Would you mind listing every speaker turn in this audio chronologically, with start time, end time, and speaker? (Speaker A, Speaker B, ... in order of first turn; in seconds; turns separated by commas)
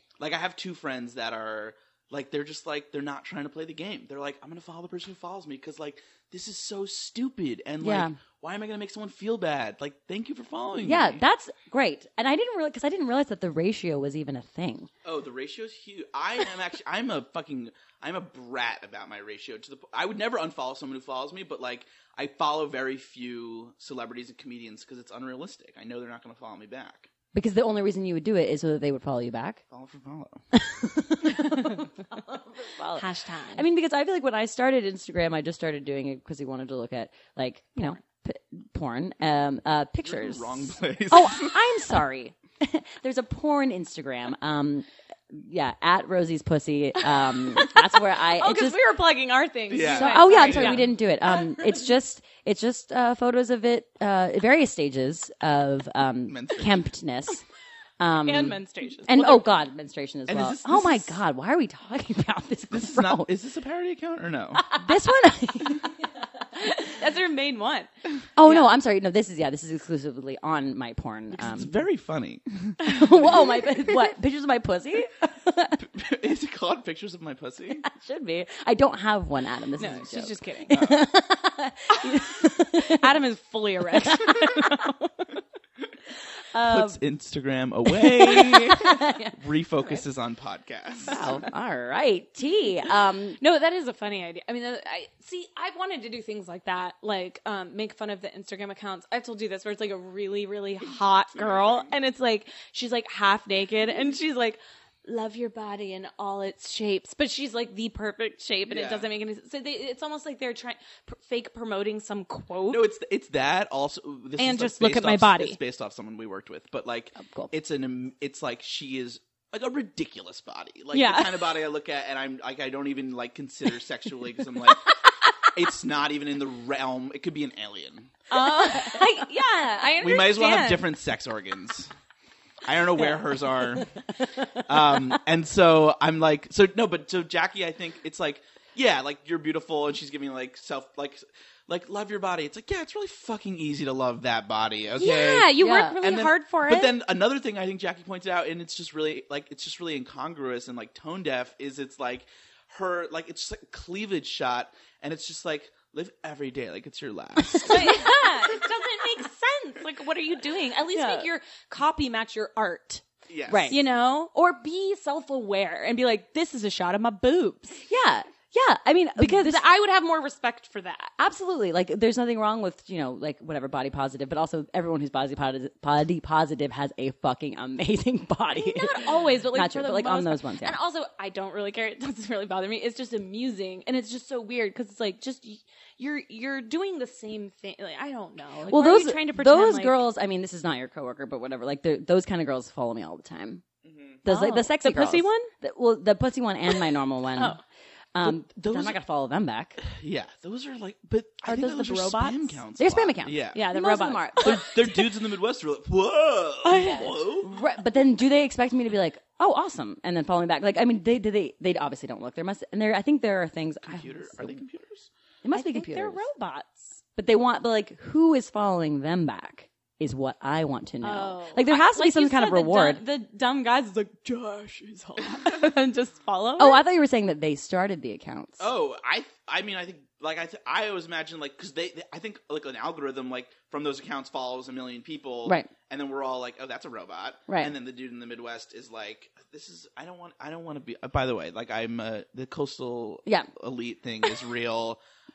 Speaker A: 0.2-11.2, Speaker B: 7.8-8.1, Speaker B: 10.8-14.9, Speaker A: 15.0-27.1, Speaker B: 27.3-29.6, Speaker A: 29.7-30.4, Speaker B: 30.5-48.8, Speaker C: 31.2-31.9, Speaker C: 32.9-33.6, Speaker A: 40.0-41.8, Speaker C: 47.0-51.7, Speaker A: 49.7-50.9, Speaker B: 49.8-57.4, Speaker A: 56.3-56.9, Speaker B: 58.0-63.3, Speaker C: 58.2-59.5, Speaker A: 60.3-61.2, Speaker A: 62.7-64.7, Speaker B: 64.7-66.1, Speaker C: 66.5-67.9, Speaker B: 68.3-71.8, Speaker C: 68.4-68.7, Speaker A: 71.3-73.7, Speaker B: 72.8-75.8, Speaker A: 75.8-77.8, Speaker B: 77.8-83.1, Speaker C: 79.8-80.8, Speaker A: 80.7-81.1, Speaker C: 82.8-85.3, Speaker B: 84.0-84.9, Speaker B: 86.5-87.0, Speaker A: 86.6-91.4, Speaker B: 87.8-89.3, Speaker B: 91.1-93.4, Speaker C: 93.4-112.9, Speaker A: 101.3-101.9, Speaker A: 108.7-109.1, Speaker A: 112.7-128.2, Speaker C: 114.4-115.6, Speaker B: 117.2-117.5, Speaker C: 120.9-121.6, Speaker C: 128.3-130.8, Speaker A: 130.0-131.9, Speaker A: 132.6-133.9, Speaker B: 133.8-135.2, Speaker A: 134.6-158.0, Speaker C: 145.0-146.9, Speaker B: 145.6-146.0, Speaker B: 157.5-158.1, Speaker C: 157.6-163.0, Speaker B: 160.9-161.3, Speaker A: 163.3-163.8, Speaker B: 163.5-163.8, Speaker C: 163.7-167.8, Speaker B: 167.8-169.6, Speaker C: 169.2-171.1, Speaker B: 171.2-180.8, Speaker C: 178.5-190.0, Speaker B: 188.7-193.6, Speaker A: 193.8-194.2, Speaker B: 194.2-197.6, Speaker C: 194.2-195.5, Speaker C: 197.3-197.6, Speaker B: 198.1-199.8, Speaker A: 198.2-199.0, Speaker A: 199.8-203.7, Speaker C: 201.4-202.6, Speaker B: 202.8-204.7, Speaker C: 203.5-205.0, Speaker A: 204.4-207.6, Speaker C: 206.6-207.2, Speaker B: 206.8-214.6, Speaker A: 213.8-215.1, Speaker B: 215.4-216.2, Speaker C: 215.5-217.0, Speaker B: 217.2-223.0, Speaker C: 221.0-226.8, Speaker B: 226.6-228.7, Speaker A: 228.6-245.0, Speaker B: 235.4-235.7